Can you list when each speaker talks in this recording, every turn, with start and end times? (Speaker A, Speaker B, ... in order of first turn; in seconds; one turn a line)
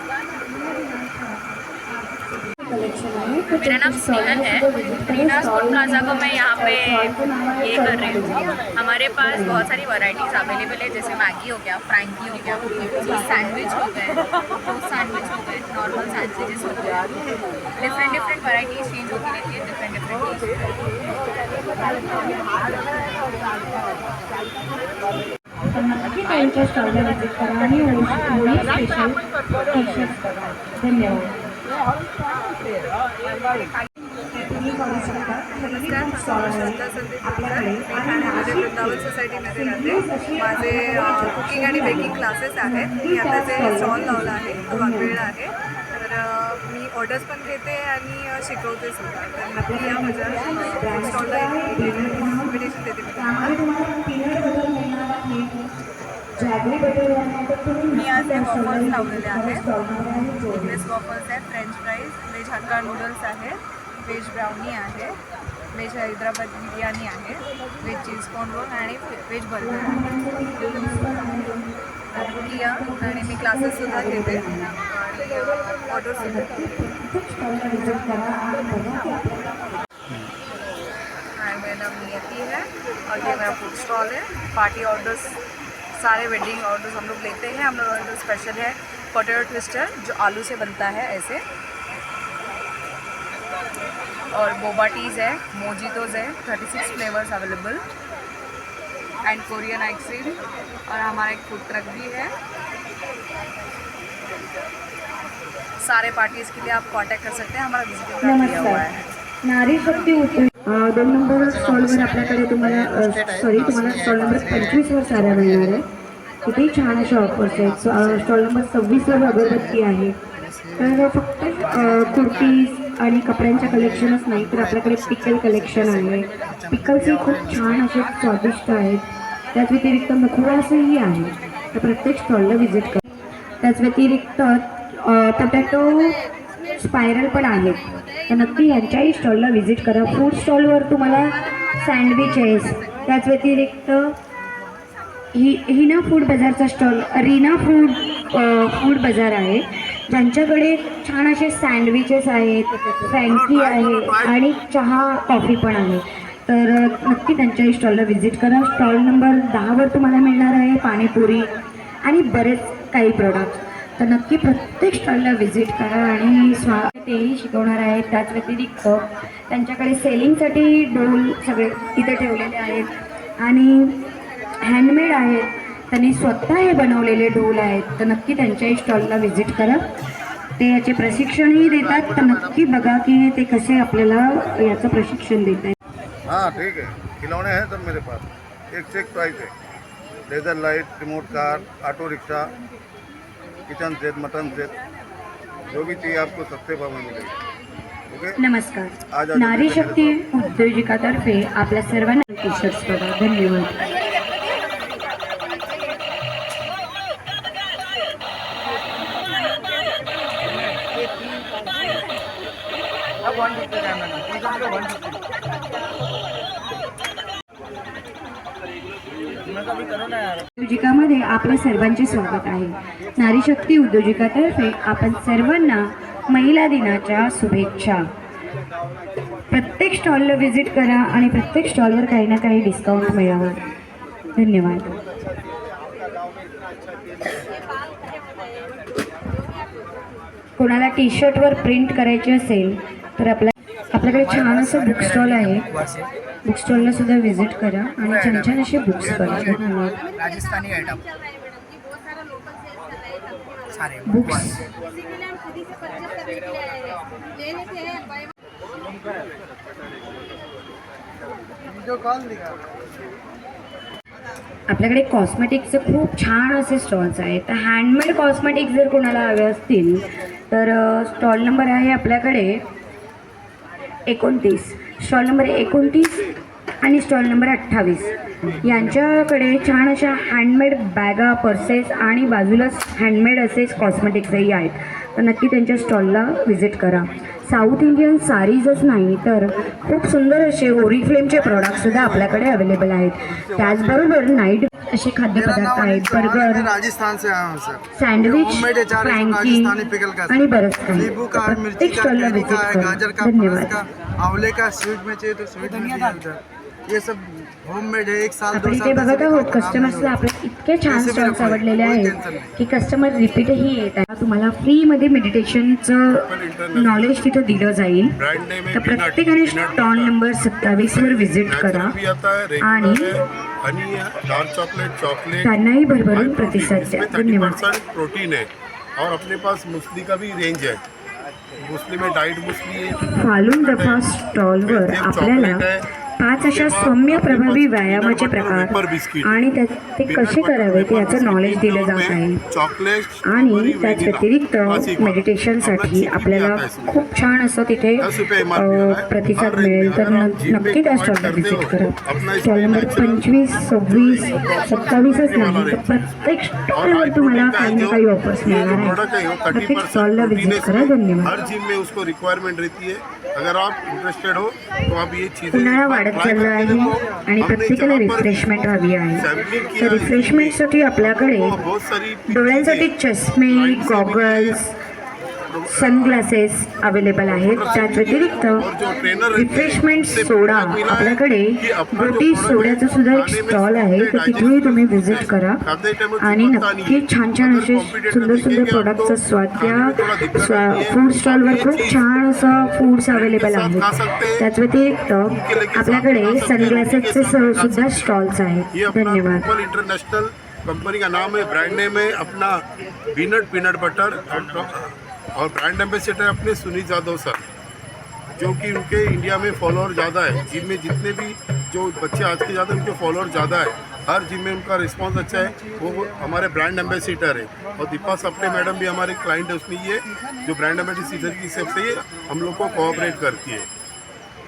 Speaker A: 0.9-1.4
Speaker A: 2.0-8.6
Speaker B: 3.5-20.6
Speaker A: 9.2-9.7
Speaker A: 25.7-29.2
Speaker A: 29.7-31.3
Speaker A: 34.3-45.3
Speaker C: 35.3-53.6
Speaker A: 49.5-52.6
Speaker A: 53.1-55.7
Speaker A: 56.4-60.8
Speaker C: 57.9-59.6
Speaker C: 60.5-65.1
Speaker C: 65.7-70.0
Speaker A: 69.6-74.8
Speaker C: 72.1-76.5
Speaker A: 76.3-79.7
Speaker C: 81.3-85.4
Speaker C: 85.9-91.4
Speaker C: 94.3-97.8
Speaker C: 99.2-102.3
Speaker C: 105.8-109.0
Speaker A: 108.2-108.9
Speaker A: 109.4-115.8
Speaker A: 116.4-120.2
Speaker A: 120.8-133.0
Speaker A: 133.6-136.2
Speaker A: 136.8-144.2
Speaker A: 145.3-161.5
Speaker D: 153.2-154.4
Speaker A: 162.0-174.0
Speaker A: 174.6-179.9
Speaker A: 180.6-185.7
Speaker E: 182.0-182.4
Speaker E: 186.3-189.5
Speaker E: 190.3-192.5
Speaker E: 193.7-194.7
Speaker E: 195.7-197.3
Speaker E: 198.1-198.4
Speaker A: 198.4-203.8
Speaker E: 199.1-200.1
Speaker A: 220.6-228.1
Speaker A: 229.5-233.6
Speaker A: 234.3-235.0
Speaker A: 240.6-245.7
Speaker F: 244.1-246.1
Speaker A: 246.4-250.0
Speaker F: 248.0-249.6
Speaker F: 250.2-251.0
Speaker F: 253.7-254.4
Speaker A: 254.1-254.7
Speaker G: 261.6-262.6
Speaker A: 264.7-272.6
Speaker A: 274.1-276.3
Speaker A: 276.8-278.1
Speaker A: 278.6-296.7
Speaker G: 291.5-292.6
Speaker G: 293.6-293.9
Speaker G: 295.3-310.2
Speaker A: 297.9-299.7
Speaker A: 300.3-303.8
Speaker F: 305.6-306.1
Speaker A: 308.5-318.2
Speaker G: 310.9-312.5
Speaker D: 316.1-320.1
Speaker A: 318.7-321.9
Speaker D: 320.6-330.8
Speaker A: 322.6-323.1
Speaker A: 325.4-327.6
Speaker D: 331.6-334.1
Speaker A: 333.0-335.6
Speaker D: 334.6-335.8
Speaker A: 336.2-342.4
Speaker D: 336.4-339.4
Speaker D: 340.1-347.0
Speaker A: 343.2-359.0
Speaker D: 348.0-356.1
Speaker D: 356.7-372.9
Speaker A: 359.5-361.3
Speaker A: 365.5-371.6
Speaker A: 372.3-374.7
Speaker D: 373.4-374.6
Speaker D: 375.5-376.3
Speaker A: 375.7-378.7
Speaker D: 377.5-394.5
Speaker G: 378.6-379.2
Speaker A: 379.3-385.6
Speaker A: 386.2-399.5
Speaker D: 395.2-398.1
Speaker D: 398.7-407.4
Speaker D: 408.3-423.7
Speaker G: 415.4-416.1
Speaker G: 417.6-418.1